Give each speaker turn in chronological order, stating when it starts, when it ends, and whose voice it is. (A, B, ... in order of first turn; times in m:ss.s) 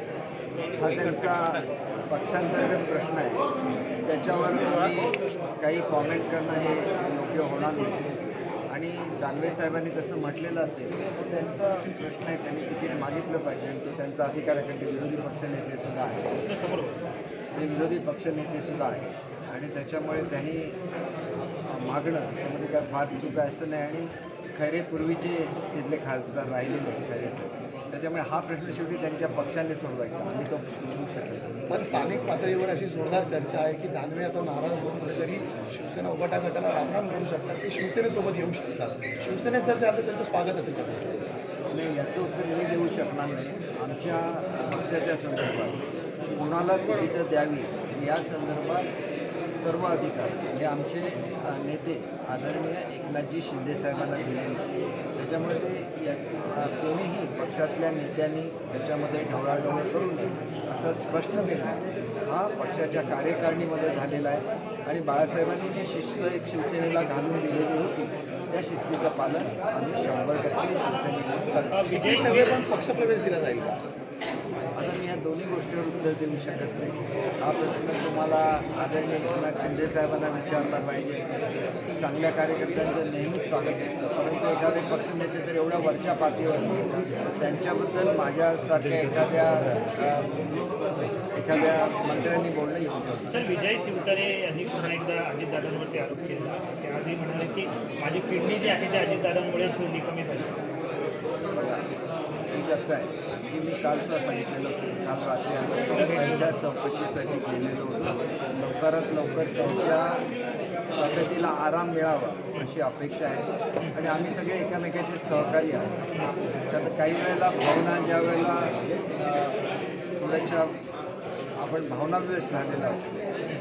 0:00.8-0:03.4 A
0:04.0-0:16.4 A
0:16.4-0:17.0 B
0:17.5-0:20.8 A
0:21.7-0:31.6 A
0:31.7-0:41.3 C
0:41.7-0:48.9 A
0:49.6-1:12.2 A
1:11.7-1:12.6 B
1:11.9-1:13.8 C
1:14.8-1:30.6 A
1:31.3-1:33.5 A
1:33.3-1:40.6 B
1:41.5-1:41.9 A
1:42.5-1:50.2 A
1:45.9-1:46.5 B
1:51.0-1:55.9 A
1:56.7-1:59.6 A
2:00.2-2:00.8 A
2:01.6-2:03.2 A